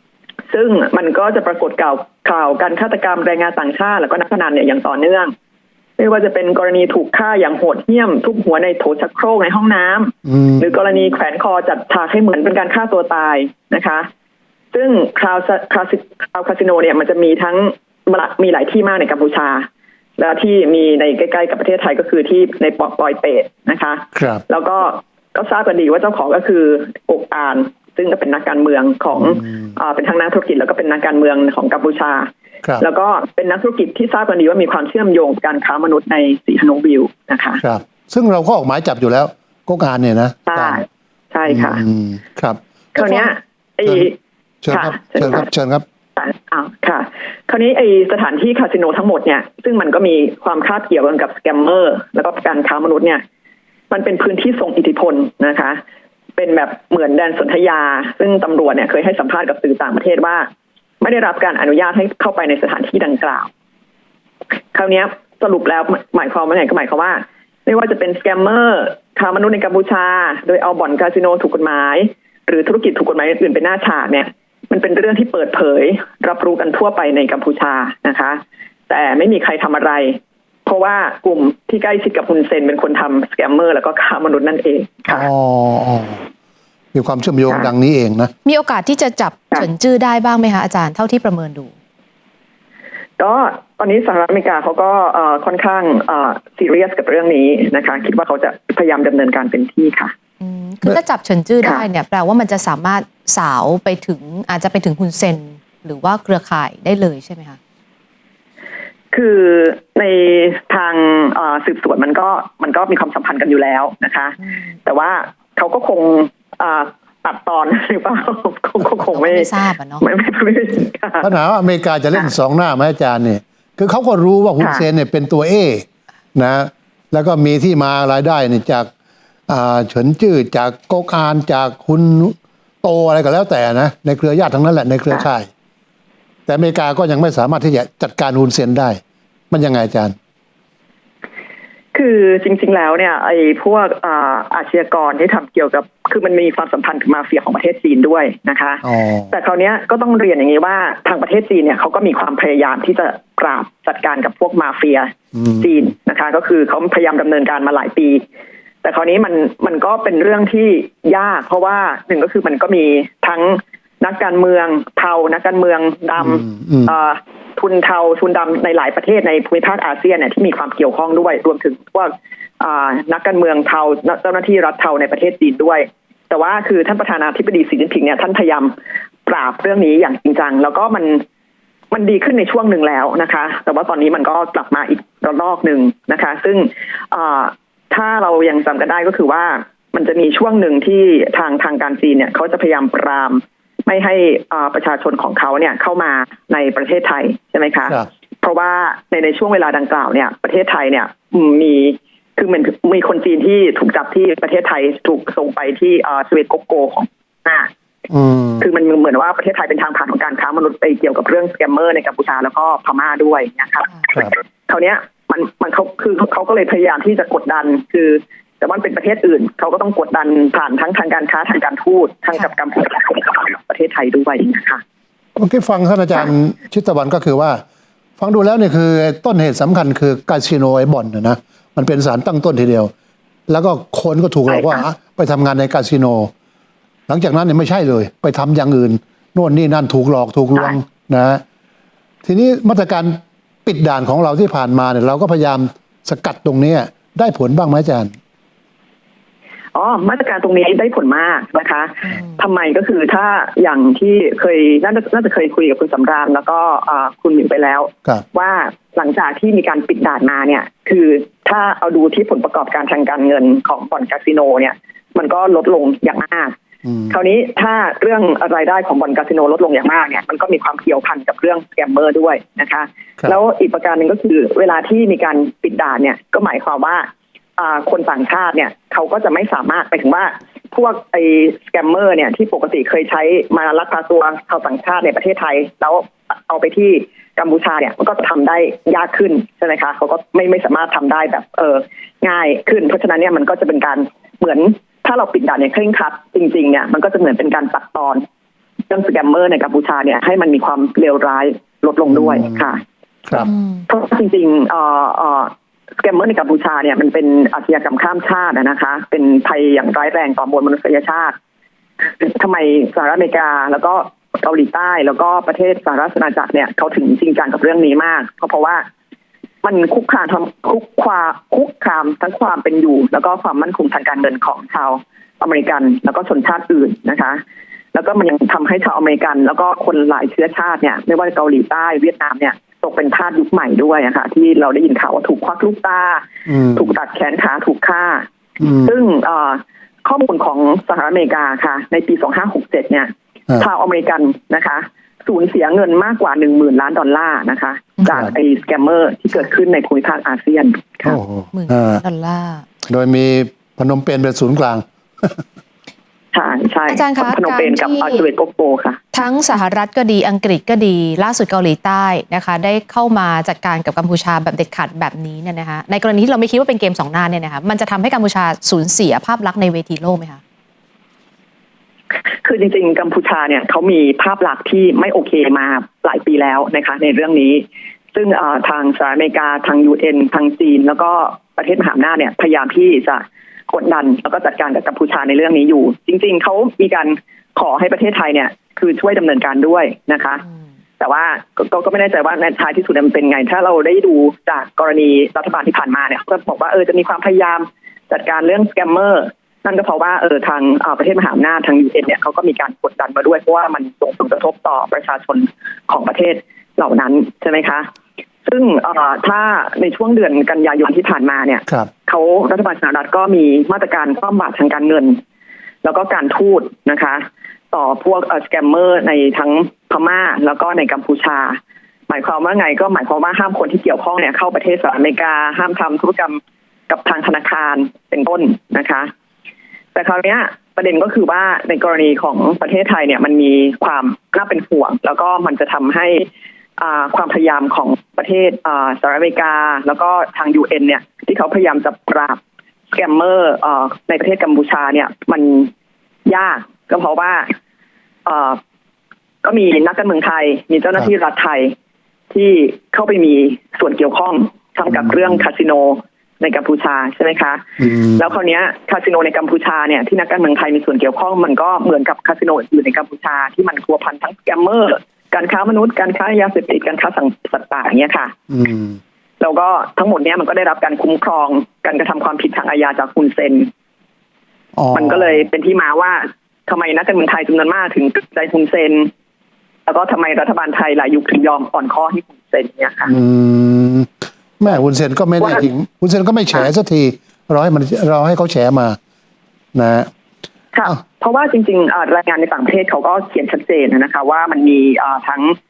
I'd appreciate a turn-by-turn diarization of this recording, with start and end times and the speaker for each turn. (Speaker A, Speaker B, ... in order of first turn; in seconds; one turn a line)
Speaker A: 0.5-5.3
Speaker A: 6.0-14.1
Speaker B: 10.3-10.8
Speaker A: 14.7-19.7
Speaker A: 20.2-37.6
Speaker B: 24.1-24.4
Speaker B: 29.1-29.7
Speaker B: 37.6-40.8
Speaker A: 40.5-41.8
Speaker B: 41.5-42.6
Speaker A: 43.0-44.1
Speaker B: 44.6-45.8
Speaker A: 44.7-45.5
Speaker A: 46.2-53.2
Speaker A: 53.9-55.8
Speaker A: 56.4-60.5
Speaker A: 61.0-63.5
Speaker A: 64.7-85.3
Speaker B: 85.1-86.2
Speaker B: 86.9-88.3
Speaker A: 87.5-87.7
Speaker C: 88.5-91.7
Speaker A: 93.2-100.1
Speaker C: 100.4-107.6
Speaker A: 109.1-121.3
Speaker C: 119.0-120.0
Speaker B: 121.2-128.9
Speaker A: 124.6-124.9
Speaker B: 129.5-135.5
Speaker B: 136.5-140.2
Speaker A: 141.9-158.2
Speaker B: 148.8-149.3
Speaker B: 155.3-155.9
Speaker A: 158.8-181.2
Speaker B: 166.2-166.9
Speaker A: 181.9-207.7
Speaker B: 208.1-208.7
Speaker A: 208.6-224.8
Speaker B: 225.4-227.6
Speaker B: 228.2-232.9
Speaker B: 233.5-236.3
Speaker A: 234.5-234.9
Speaker B: 237.1-241.4
Speaker B: 242.2-248.1
Speaker A: 249.7-266.6
Speaker B: 266.9-267.2
Speaker A: 267.1-298.2
Speaker A: 298.9-302.8
Speaker B: 302.1-302.8
Speaker B: 303.3-303.5
Speaker A: 303.9-311.4
Speaker A: 312.2-318.9
Speaker A: 319.6-327.4
Speaker A: 327.9-338.3
Speaker B: 336.5-336.9
Speaker B: 338.6-339.0
Speaker A: 338.8-351.1
Speaker B: 348.1-348.3
Speaker B: 351.1-352.0
Speaker C: 351.5-352.7
Speaker B: 352.9-355.4
Speaker A: 356.3-359.1
Speaker C: 356.9-358.3
Speaker C: 359.1-370.4
Speaker A: 372.4-390.4
Speaker A: 391.0-407.9
Speaker A: 408.4-415.2
Speaker A: 415.8-429.1
Speaker A: 429.9-442.4
Speaker A: 442.9-445.7
Speaker A: 446.3-447.5
Speaker A: 448.2-448.6
Speaker A: 449.4-451.7
Speaker A: 452.3-468.3
Speaker B: 457.8-458.2
Speaker B: 468.5-469.0
Speaker A: 469.4-473.7
Speaker B: 474.8-475.4
Speaker A: 474.9-479.1
Speaker A: 479.9-483.1
Speaker B: 483.1-489.0
Speaker B: 489.8-490.1
Speaker A: 490.7-495.6